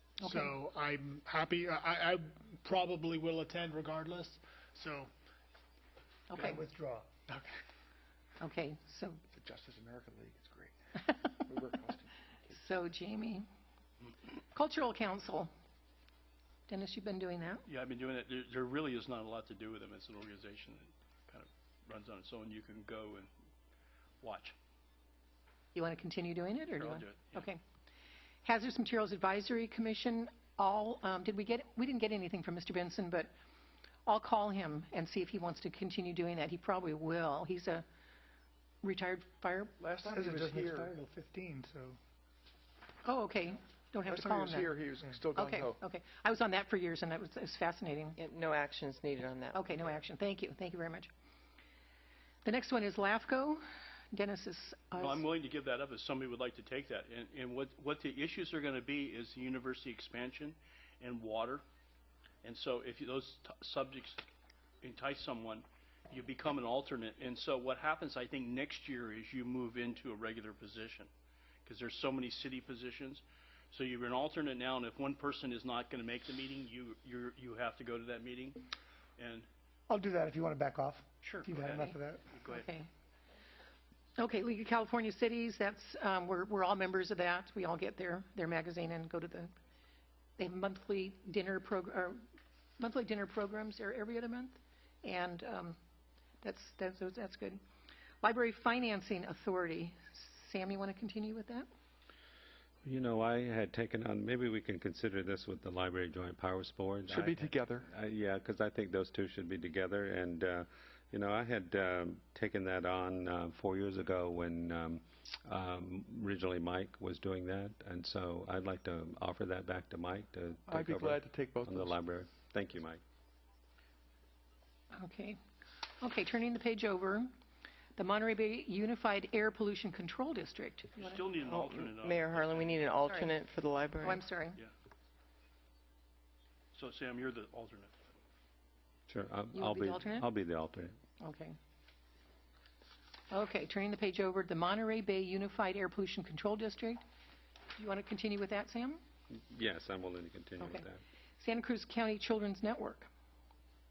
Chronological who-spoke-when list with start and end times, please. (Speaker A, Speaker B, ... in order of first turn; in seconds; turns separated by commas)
Speaker A: 0.2-0.6, Speaker B: 0.2-5.1, Speaker A: 6.3-6.6, Speaker C: 6.3-7.1, Speaker D: 7.3-7.5, Speaker A: 8.4-9.2, Speaker D: 9.3-12.6, Speaker A: 12.5-13.4, Speaker A: 14.5-15.5, Speaker A: 16.7-17.6, Speaker E: 17.6-23.3, Speaker E: 24.2-24.5, Speaker A: 25.7-27.6, Speaker E: 26.8-27.4, Speaker A: 28.4-33.3, Speaker A: 34.0-37.8, Speaker A: 38.8-39.7, Speaker D: 39.8-40.9, Speaker C: 40.0-42.0, Speaker A: 43.0-44.7, Speaker D: 44.0-45.8, Speaker A: 45.3-48.2, Speaker F: 48.2-49.9, Speaker A: 49.5-51.1, Speaker A: 52.4-55.2, Speaker E: 55.0-61.6, Speaker E: 62.4-64.2, Speaker E: 64.8-71.1, Speaker E: 71.6-79.5, Speaker C: 79.9-82.3, Speaker A: 81.2-82.0, Speaker E: 81.4-82.7, Speaker A: 82.5-82.9, Speaker A: 84.2-89.5, Speaker A: 90.4-92.2, Speaker A: 92.8-95.8, Speaker A: 96.4-97.6, Speaker A: 98.2-101.7, Speaker G: 102.8-123.0, Speaker D: 107.1-107.9, Speaker D: 120.7-122.0, Speaker A: 124.9-125.4, Speaker A: 126.0-127.3, Speaker A: 128.0-131.3, Speaker E: 131.0-132.9, Speaker F: 131.5-134.2, Speaker A: 133.1-133.3, Speaker A: 134.0-134.6, Speaker E: 136.7-137.9, Speaker G: 139.1-140.9, Speaker A: 139.5-140.3, Speaker A: 141.2-141.6, Speaker A: 143.3-147.0, Speaker A: 147.8-149.0, Speaker G: 149.5-151.0, Speaker A: 150.6-150.9, Speaker A: 151.4-153.1